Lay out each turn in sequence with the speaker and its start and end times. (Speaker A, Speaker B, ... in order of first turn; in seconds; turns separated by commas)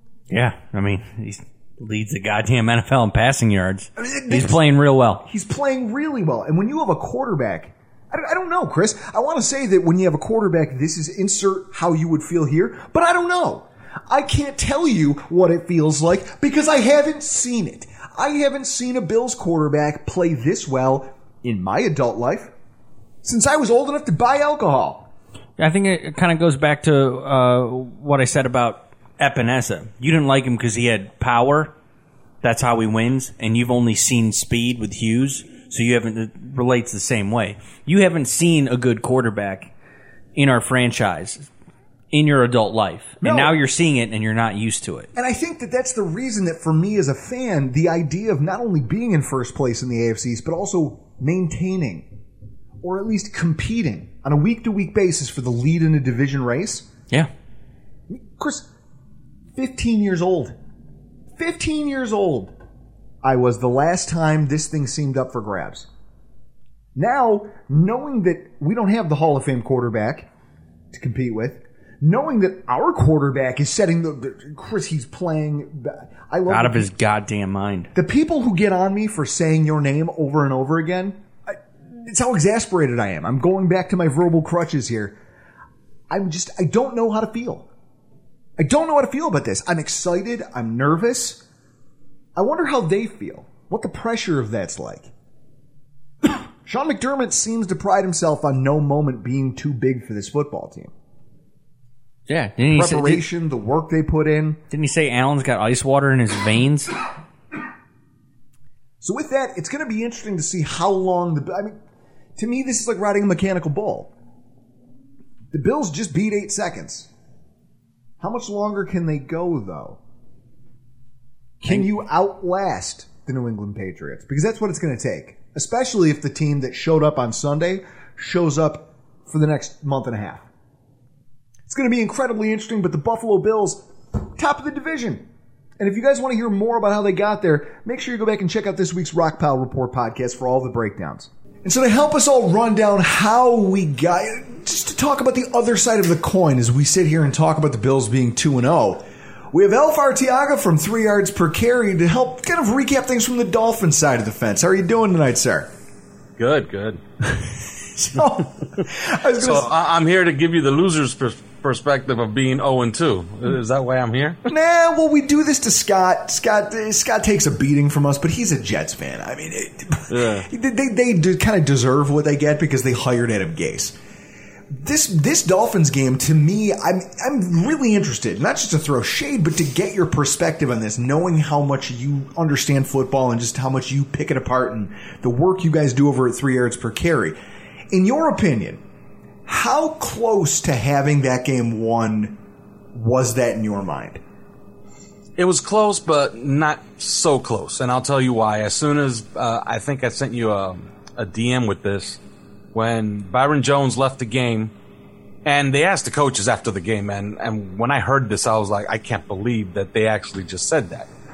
Speaker A: 0.3-5.2, Speaker B: 4.0-4.6, Speaker B: 5.2-22.5, Speaker B: 23.2-25.1, Speaker A: 25.6-31.7, Speaker A: 32.4-39.7, Speaker A: 40.4-41.5, Speaker A: 42.1-45.1, Speaker B: 43.2-43.5, Speaker B: 45.1-52.0, Speaker B: 52.8-56.9, Speaker B: 58.1-58.7, Speaker B: 59.5-60.5, Speaker B: 61.4-62.5, Speaker B: 63.2-65.9, Speaker B: 66.9-70.3, Speaker B: 70.9-76.8, Speaker A: 76.5-77.9, Speaker B: 77.9-85.2, Speaker B: 86.1-87.7, Speaker B: 88.6-91.4, Speaker B: 92.3-95.1, Speaker B: 96.2-100.9, Speaker A: 102.3-103.2, Speaker B: 102.7-104.6, Speaker A: 104.7-106.9, Speaker B: 109.0-111.7, Speaker B: 112.4-114.1, Speaker B: 115.5-117.1, Speaker B: 118.2-120.0, Speaker B: 121.6-130.4, Speaker B: 131.7-133.8, Speaker B: 134.4-135.3, Speaker B: 135.8-155.7, Speaker C: 156.4-157.0, Speaker B: 157.3-159.7, Speaker C: 159.4-164.4, Speaker B: 164.4-173.9, Speaker C: 170.1-170.5, Speaker B: 174.7-187.4, Speaker B: 187.9-188.8, Speaker B: 189.5-192.4, Speaker B: 192.9-194.2, Speaker C: 195.4-202.2, Speaker C: 202.7-204.7, Speaker C: 205.4-211.1